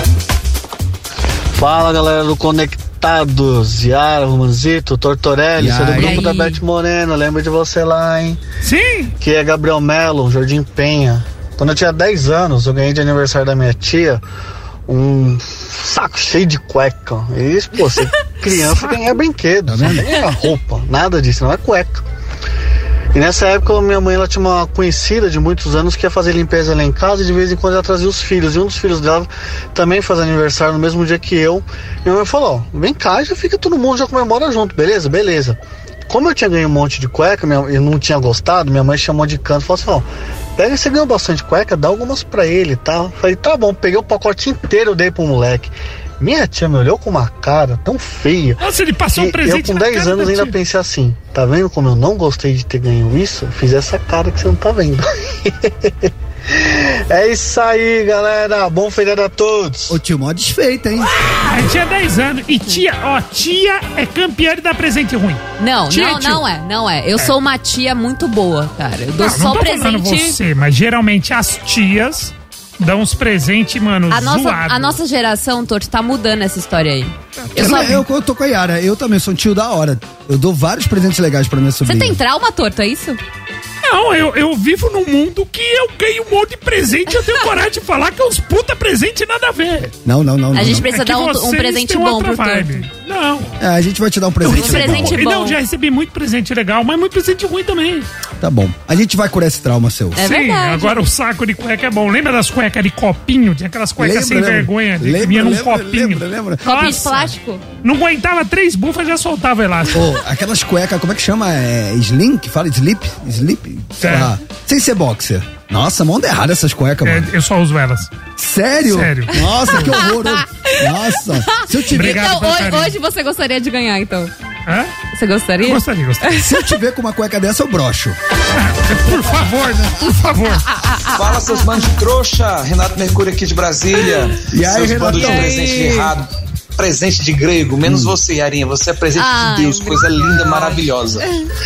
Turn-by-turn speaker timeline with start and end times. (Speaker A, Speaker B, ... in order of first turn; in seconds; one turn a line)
Speaker A: 1.6-8.4
Speaker B: 5.5-6.3
Speaker C: 5.9-6.6
Speaker D: 8.6-9.1
Speaker A: 9.2-14.2
Speaker A: 14.9-22.0
Speaker D: 18.5-19.0
Speaker B: 19.7-20.1
Speaker A: 23.1-48.6
Speaker D: 48.6-50.5
Speaker A: 49.1-60.0
Speaker B: 59.9-61.1
Speaker D: 61.5-66.4
Speaker C: 65.6-70.4
Speaker D: 69.2-74.9
Speaker C: 74.1-78.0
Speaker D: 77.4-78.0
Speaker B: 77.5-82.2
Speaker C: 81.8-83.2
Speaker D: 83.8-89.9
Speaker C: 87.1-87.4
Speaker B: 90.0-90.9
Speaker C: 90.5-92.7
Speaker D: 90.9-93.5
Speaker B: 93.6-95.2
Speaker D: 94.4-98.1
Speaker C: 94.5-95.6
Speaker B: 98.4-100.3
Speaker C: 100.2-101.0
Speaker D: 100.2-110.0
Speaker B: 104.0-106.9
Speaker C: 106.6-107.6
Speaker B: 109.9-117.3
Speaker D: 114.0-114.3
Speaker D: 117.0-118.1
Speaker B: 118.4-122.3
Speaker D: 118.8-119.9
Speaker C: 119.7-120.8
Speaker C: 121.5-124.3
Speaker D: 121.9-122.9
Speaker D: 124.7-124.9
Speaker C: 125.1-126.5
Speaker D: 125.6-126.4
Speaker B: 126.3-128.2
Speaker D: 128.5-130.7
Speaker C: 130.7-131.8
Speaker E: 131.1-141.2
Speaker B: 134.5-135.5
Speaker C: 135.2-136.1
Speaker B: 137.8-138.1
Speaker C: 139.1-141.5